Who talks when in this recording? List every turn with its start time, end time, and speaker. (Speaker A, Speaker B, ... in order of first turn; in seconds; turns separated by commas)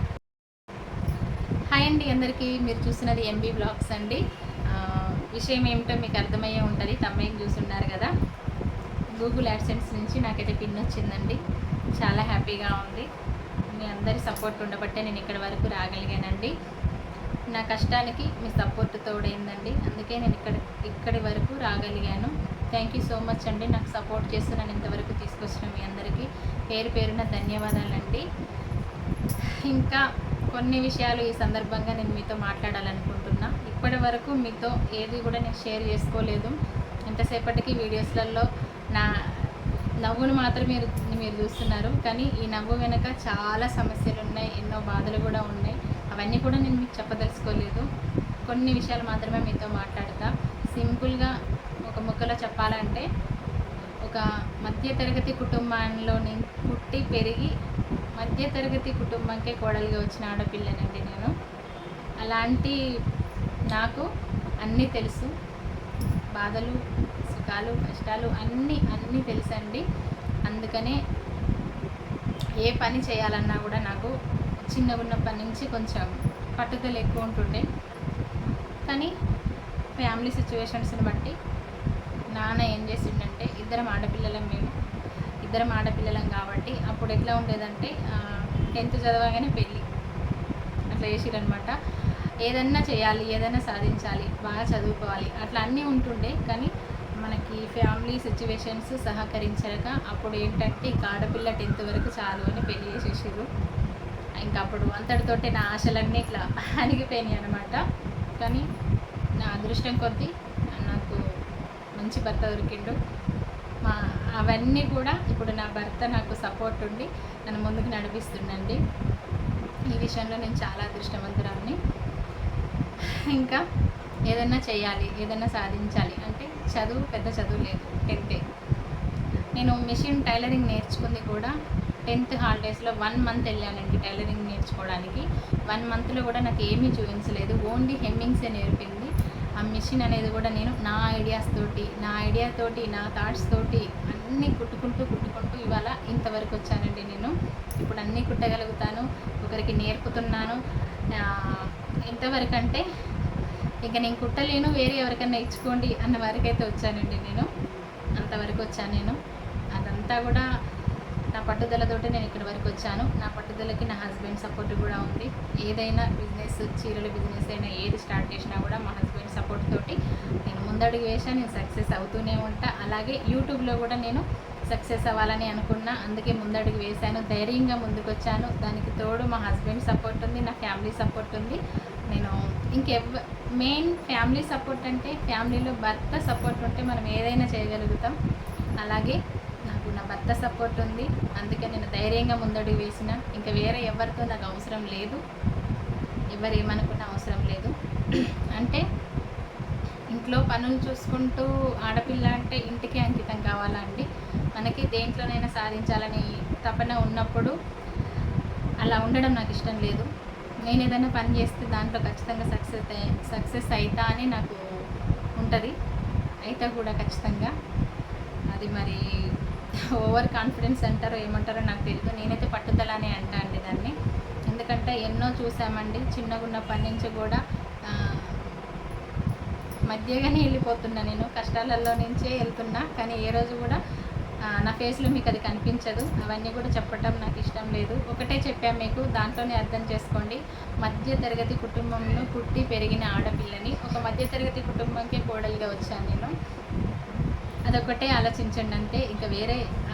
Speaker A: 1.7-8.1, Speaker A: 9.2-11.4, Speaker A: 12.0-13.1, Speaker A: 13.7-16.5, Speaker A: 17.5-28.2, Speaker A: 29.7-36.5, Speaker A: 37.1-39.5, Speaker A: 40.0-47.9, Speaker A: 48.5-51.3, Speaker A: 51.9-53.0, Speaker A: 54.0-57.5, Speaker A: 58.2-61.3, Speaker A: 62.2-62.8, Speaker A: 63.7-64.1, Speaker A: 64.6-65.3, Speaker A: 66.3-69.8, Speaker A: 70.5-71.0, Speaker A: 72.6-74.1, Speaker A: 74.7-77.7, Speaker A: 78.9-79.1, Speaker A: 80.0-81.3, Speaker A: 82.3-84.7, Speaker A: 85.4-89.8, Speaker A: 90.9-91.7, Speaker A: 92.4-96.7, Speaker A: 97.2-103.5, Speaker A: 104.4-107.8, Speaker A: 108.4-108.6, Speaker A: 109.4-111.2, Speaker A: 112.0-113.0, Speaker A: 113.8-118.8, Speaker A: 119.9-121.8, Speaker A: 123.3-123.6, Speaker A: 124.3-128.4, Speaker A: 129.6-131.5, Speaker A: 132.1-150.6, Speaker A: 151.1-152.8, Speaker A: 153.8-157.5, Speaker A: 158.2-159.2, Speaker A: 159.7-160.5, Speaker A: 161.3-181.6, Speaker A: 182.1-188.2, Speaker A: 188.8-195.2, Speaker A: 196.3-198.8, Speaker A: 200.1-207.5, Speaker A: 208.8-210.1, Speaker A: 210.6-214.6, Speaker A: 215.4-215.7, Speaker A: 216.4-217.5, Speaker A: 218.5-219.0, Speaker A: 219.9-223.9, Speaker A: 224.5-228.3, Speaker A: 229.9-233.8, Speaker A: 234.6-246.3, Speaker A: 247.7-249.6